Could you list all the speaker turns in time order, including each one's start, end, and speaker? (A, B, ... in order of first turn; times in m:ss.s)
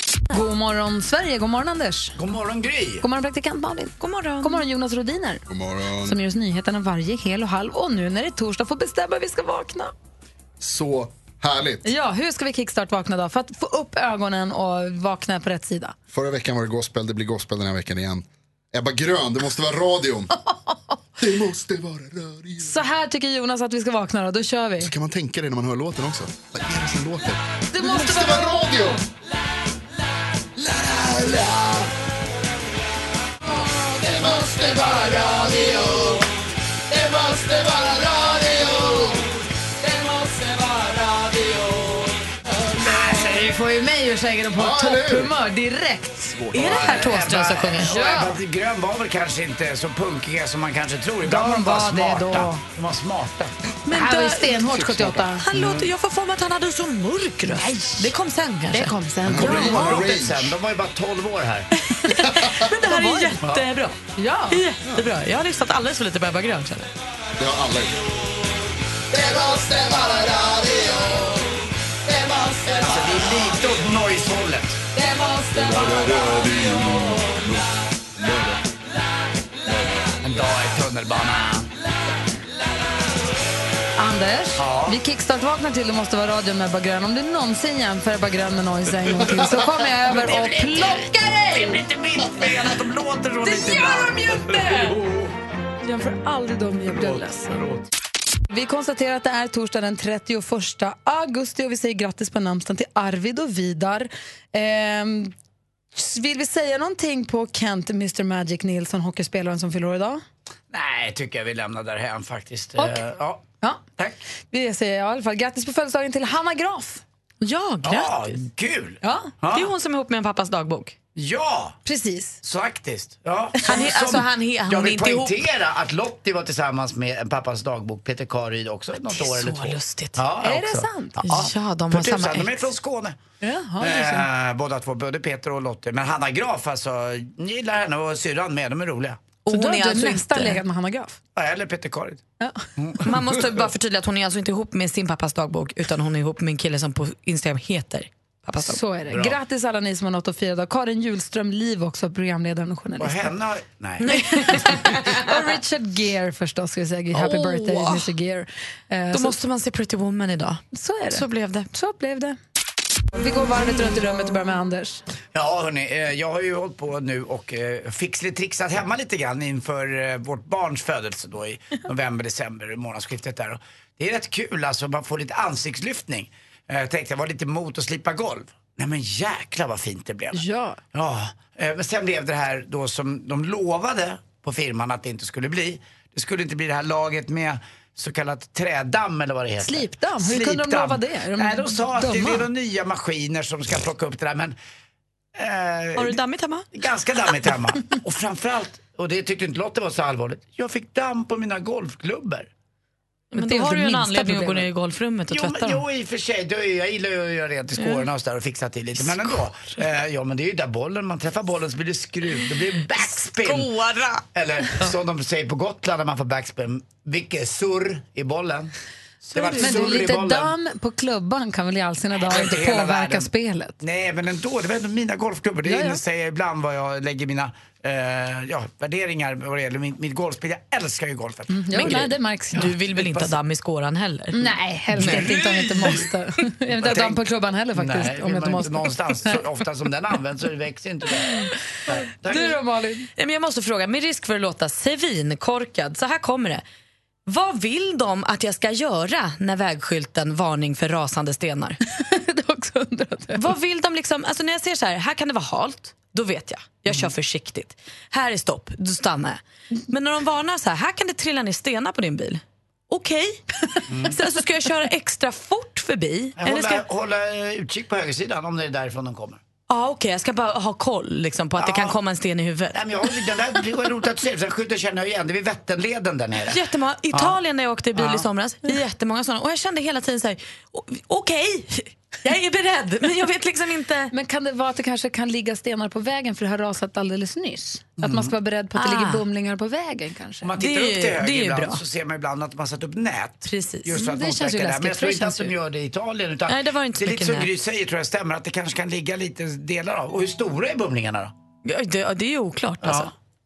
0:00.3-0:02.2 A
0:02.2-0:03.0 B
0:03.0-0:05.4 A
0:04.0-0:04.6 C
0:05.5-0:06.2 D
0:06.0-0:09.9 A
0:10.6-0:11.8 D
0:11.8-0:16.0 A
0:16.1-0:20.3 D
0:20.5-0:20.8 A
0:21.2-0:22.8 D
0:22.6-0:24.9 A
0:24.8-0:29.0 D
0:27.7-0:28.5 A
0:30.6-0:31.9 D
0:33.5-0:36.3 D
0:36.9-0:39.3 D
0:39.8-0:42.2 D
0:42.8-0:48.4 A
0:42.8-0:43.2 D
0:44.6-0:45.4 D
0:46.5-0:47.9 C
0:46.5-0:53.5 B
0:51.2-0:52.6 A
0:53.9-0:54.6 C
0:53.9-0:55.4 A
0:54.6-0:55.2 D
0:55.4-0:58.9 C
0:55.5-0:55.9 B
0:57.5-0:58.1 A
0:58.7-1:00.0 A
0:59.3-1:00.6 D
0:59.3-1:01.7 B
1:01.8-1:04.0 C
1:02.8-1:03.4 A
1:03.4-1:03.7 B
1:04.2-1:04.6 A
1:04.5-1:06.9 C
1:07.4-1:08.0 D
1:09.1-1:11.4 D
1:12.1-1:13.1 D
1:12.8-1:14.8 B
1:15.0-1:16.2 A
1:15.5-1:18.6 D
1:19.7-1:20.1 D
1:20.2-1:21.7 B
1:24.0-1:31.8 A
1:24.6-1:25.0 B
1:29.8-1:35.3 B
1:33.4-1:35.0 A
1:35.8-1:37.6 A
1:36.9-1:37.9 B
1:38.5-1:45.3 A
1:45.9-1:50.2 A
1:50.7-1:53.5 B
1:54.5-1:57.0 A
1:57.4-1:58.3 C
1:57.8-1:59.7 B
1:59.0-1:59.3 A
1:59.5-2:01.0 C
2:01.2-2:01.8 B
2:01.8-2:02.4 A
2:02.4-2:13.2 B
2:03.6-2:05.5 C
2:09.0-2:10.2 C
2:10.4-2:11.2 A
2:11.2-2:12.7 C
2:13.4-2:14.3 A
2:13.8-2:19.2 B
2:19.4-2:20.6 C
2:19.5-2:21.2 A
2:21.4-2:22.2 B
2:22.4-2:22.7 A
2:22.8-2:23.7 B
2:23.0-2:28.8 C
2:28.6-2:33.3 A
2:29.1-2:29.4 B
2:33.0-2:34.1 B
2:34.0-2:35.5 C
2:34.1-2:39.4 A
2:37.1-2:38.1 C
2:39.1-2:41.7 C
2:40.7-2:42.4 A
2:43.1-2:45.0 A
2:45.3-3:14.6 B
3:00.3-3:00.8 A
3:09.6-3:12.5 A
3:15.4-3:16.2 B
3:16.0-3:16.6 C
3:16.7-3:22.5 B
3:23.3-3:25.8 C
3:23.4-3:24.7 A
3:25.3-3:33.7 B
3:27.8-3:28.1 C
3:29.0-3:29.7 C
3:32.9-3:34.2 C
3:34.3-3:38.7 B
3:39.3-3:40.1 C
3:39.3-3:40.5 B
3:39.6-3:43.8 A
3:42.2-3:51.6 B
3:45.7-3:46.0 A
3:51.5-3:52.7 A
3:51.7-3:56.0 C
3:52.6-3:53.4 B
3:54.3-3:59.4 A
3:55.0-3:56.1 B
3:56.8-4:02.6 B
4:02.3-4:03.1 A
4:03.2-4:06.6 C
4:07.3-4:11.8 C
4:12.0-4:13.5 A
4:13.4-4:26.8 C
4:23.9-4:24.2 B
4:26.4-4:29.4 B
4:29.7-4:32.8 C
4:31.6-4:32.0 B
4:32.7-4:36.6 B
4:36.5-4:44.1 C
4:37.1-4:37.4 B
4:38.0-4:38.3 B
4:44.1-4:50.5 A
4:48.0-4:48.3 B
4:48.8-4:49.2 C
4:50.4-5:01.3 B
4:50.6-4:51.8 C
4:53.4-4:54.0 C
4:53.9-4:55.5 A
4:56.5-4:57.5 C
5:01.6-5:03.1 C
5:02.8-5:03.1 B